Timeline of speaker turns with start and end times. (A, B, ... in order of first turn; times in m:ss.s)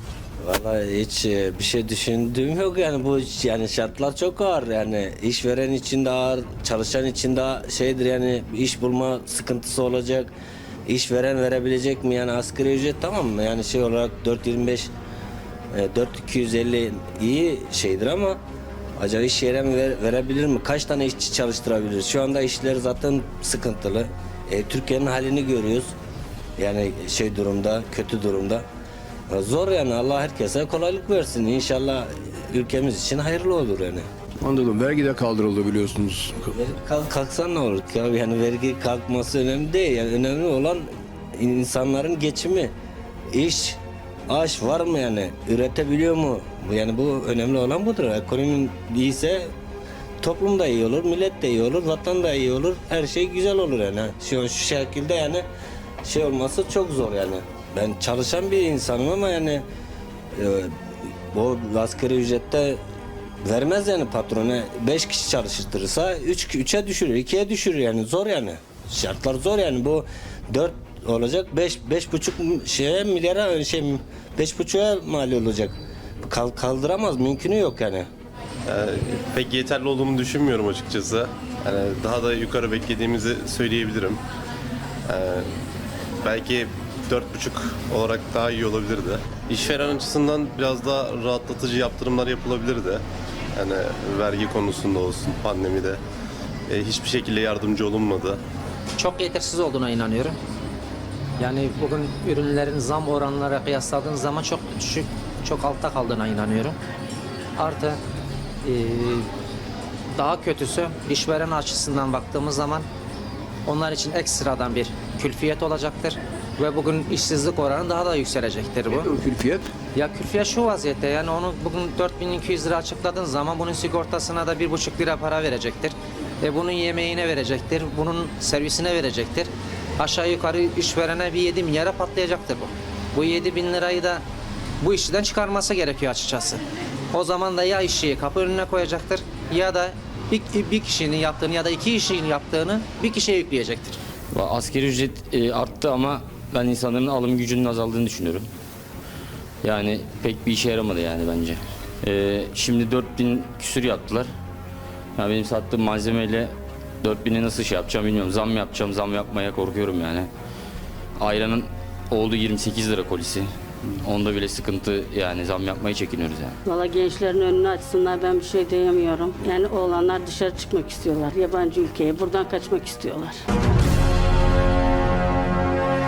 0:00.4-0:10.3 A
0:10.8-0:14.9 A
0:15.7-0:18.4 A
0:19.0-0:25.9 A
0:26.6-0:28.6 A
0:29.3-0:34.1 A
0:34.4-0:36.5 B
0:36.5-0:42.7 A
0:43.3-0:49.5 A
0:50.2-0:55.5 A
0:56.0-0:59.6 A
1:00.3-1:02.8 A
1:03.4-1:18.1 A
1:18.7-1:24.2 C
1:25.1-1:25.4 C
1:26.2-1:33.0 C
1:33.6-1:36.0 C
1:36.7-1:38.4 C
1:39.0-1:40.4 D
1:41.4-1:46.8 D
1:47.6-1:48.0 D
1:48.6-1:49.3 D
1:50.1-1:52.9 D
1:53.6-1:59.1 D
1:59.0-1:59.7 B
1:59.9-2:14.2 D
2:14.8-2:24.0 D
2:24.3-2:28.5 E
2:29.6-2:34.3 E
2:35.2-2:40.3 E
2:41.2-2:43.5 E
2:44.0-2:46.6 E
2:46.6-2:53.4 F